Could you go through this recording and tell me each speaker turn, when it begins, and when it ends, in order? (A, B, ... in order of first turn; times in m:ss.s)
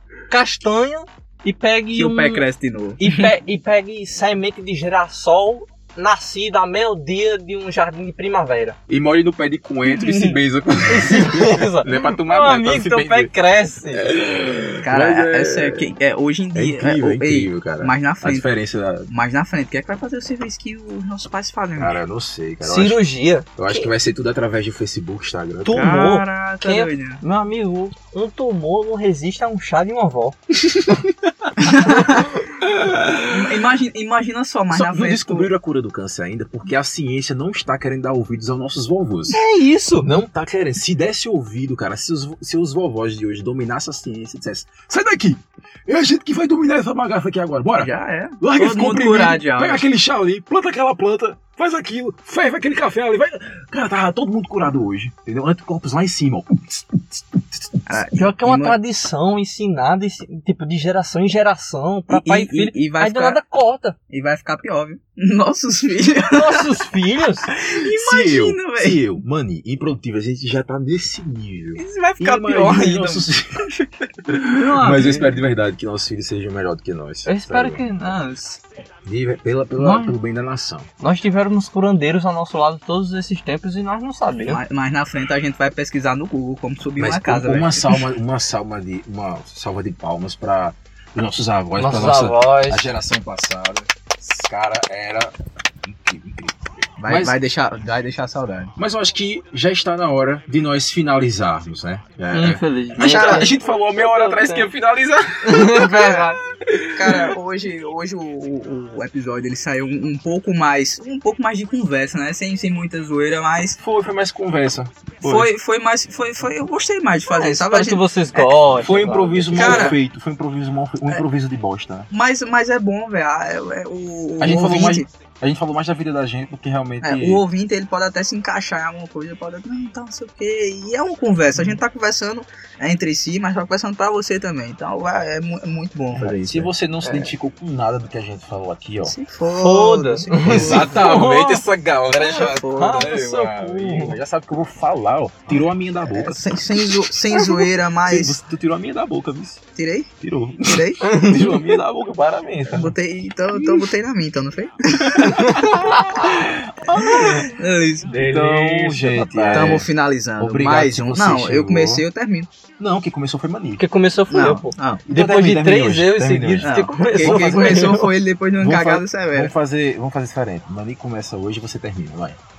0:00.3-0:02.4 A
0:01.9-0:03.3 B
0:03.0-0:08.8 A
0:08.9-0:13.3 C
0:10.0-0:10.4 B
0:10.9-0:14.1 A
0:13.9-0:15.9 C
0:14.8-0:18.5 B
0:16.5-0:19.1 C
0:19.1-0:22.0 B
0:21.8-0:25.9 C
0:22.6-0:23.9 A
0:25.6-0:30.4 A
0:25.7-0:27.2 B
0:31.6-0:32.4 B
0:32.6-0:33.5 C
0:33.3-0:35.5 B
0:34.7-0:39.4 C
0:39.3-0:40.1 A
0:40.0-0:57.8 C
0:47.8-0:49.8 B
0:57.9-0:58.8 B
0:58.2-1:04.0 A
1:02.1-1:03.4 B
1:04.1-1:06.7 B
1:06.3-1:07.5 A
1:07.5-1:09.0 B
1:07.8-1:13.7 C
1:11.8-1:13.9 B
1:14.3-1:17.8 C
1:14.5-1:15.4 A
1:17.3-1:18.6 A
1:19.0-1:20.9 C
1:19.8-1:20.2 A
1:21.0-1:24.6 A
1:24.5-1:28.0 B
1:27.0-1:37.4 C
1:31.8-1:32.9 A
1:37.0-1:38.7 B
1:38.8-1:47.3 C
1:42.3-1:44.7 A
1:43.0-1:43.5 B
1:45.4-1:46.4 A
1:45.8-1:46.3 B
1:46.9-1:53.8 B
1:53.8-1:55.5 C
1:55.2-1:58.6 B
1:57.3-2:00.0 A
1:58.8-2:02.1 C
1:59.6-2:00.0 B
2:02.1-2:05.1 B
2:04.4-2:07.4 C
2:07.0-2:17.3 B
2:16.2-2:19.2 C
2:19.0-2:21.0 B
2:19.6-2:21.7 A
2:20.4-2:29.6 C
2:22.2-2:24.2 A
2:22.3-2:23.2 B
2:26.1-2:28.4 B
2:29.8-2:30.1 B
2:30.2-2:32.9 C
2:30.6-2:31.2 B
2:31.0-2:31.7 A
2:32.7-2:35.7 B
2:33.6-2:33.8 C
2:35.1-2:35.5 C
2:35.4-2:36.1 A
2:36.2-2:37.4 C
2:36.9-2:38.1 B
2:36.9-2:37.4 A
2:38.0-2:39.8 A
2:38.1-2:42.0 C
2:39.5-2:42.5 B
2:42.8-2:43.8 C
2:43.8-2:48.1 A
2:44.3-2:45.0 B
2:45.1-2:48.0 C
2:46.6-2:49.5 B
2:48.6-2:52.4 C